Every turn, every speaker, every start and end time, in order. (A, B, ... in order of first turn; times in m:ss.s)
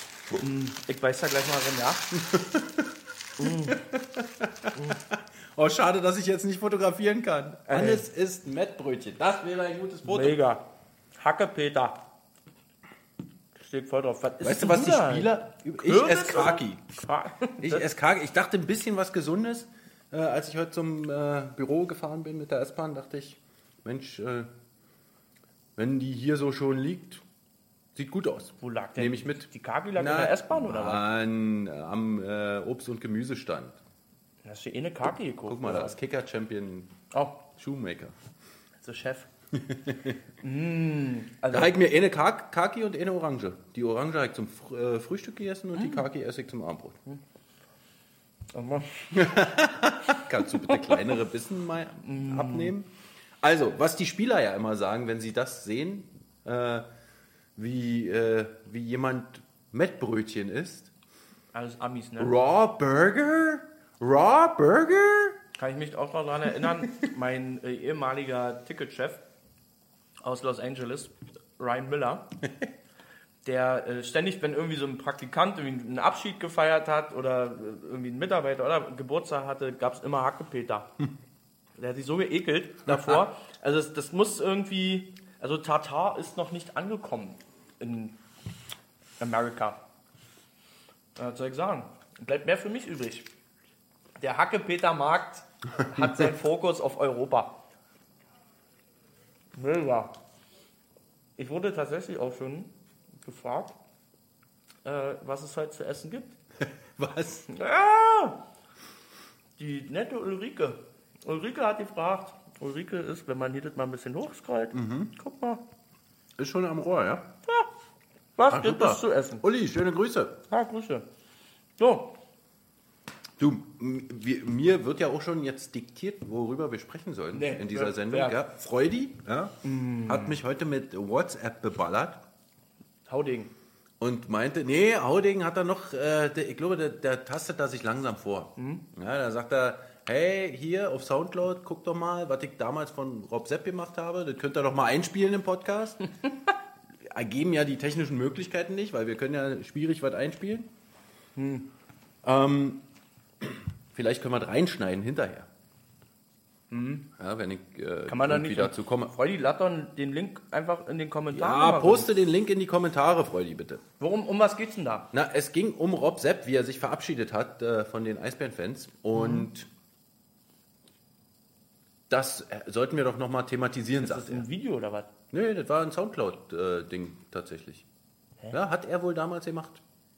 0:00.4-0:02.1 A
0:02.2-0:02.9 B
0:03.4-0:03.8 A
0:03.4-0:10.4 B
0:07.7-0:08.0 A
0:10.0-0:10.6 A
0:11.2-0:12.0 A
0:13.6-0:15.3 A
0:14.4-0:16.8 B
0:15.8-0:17.8 A
0:17.6-0:24.5 B
0:25.8-0:27.2 B
0:27.9-0:33.8 B
0:28.6-0:31.0 A
0:34.4-0:35.9 A
0:35.4-0:36.9 B
0:37.1-0:37.4 A
0:37.5-0:38.1 B
0:38.8-0:39.3 A
0:39.5-0:40.2 B
0:40.4-0:41.7 A
0:41.5-0:47.0 B
0:45.8-0:46.0 A
0:48.5-0:49.3 A
0:49.1-0:52.9 B
0:52.0-0:52.7 A
0:53.4-0:56.9 B
0:57.6-1:00.9 B
1:01.5-1:02.3 A
1:02.2-1:05.4 B
1:05.6-1:09.2 A
1:10.2-1:12.3 A
1:13.4-1:20.9 A
1:21.8-1:28.2 A
1:22.9-1:23.2 B
1:29.2-1:29.8 A
1:31.2-1:33.3 A
1:34.2-1:37.6 A
1:39.5-1:40.1 A
1:41.4-1:43.8 A
1:44.8-1:46.4 A
1:47.0-1:47.5 B
1:47.5-1:48.4 A
1:49.6-1:55.6 A
1:54.7-1:55.1 B
1:56.4-1:57.3 B
1:58.4-1:59.4 A
1:58.5-2:00.4 B
2:00.5-2:01.0 A
2:01.8-2:02.1 A
2:03.4-2:12.2 B
2:07.3-2:08.4 A
2:09.6-2:10.4 A
2:13.1-2:13.5 A
2:14.0-2:26.0 B
2:18.6-2:18.8 A
2:27.0-2:30.7 B
2:31.4-2:31.7 A
2:32.2-2:32.8 B
2:33.4-2:35.5 B
2:36.7-2:37.1 A
2:37.2-2:39.1 B
2:38.1-2:42.1 A
2:41.3-2:43.8 B
2:44.0-2:45.1 A
2:45.1-2:49.7 B
2:49.1-2:49.5 A
2:52.1-2:54.4 B
2:54.0-2:55.1 A
2:55.3-2:57.8 B
2:58.5-2:59.8 B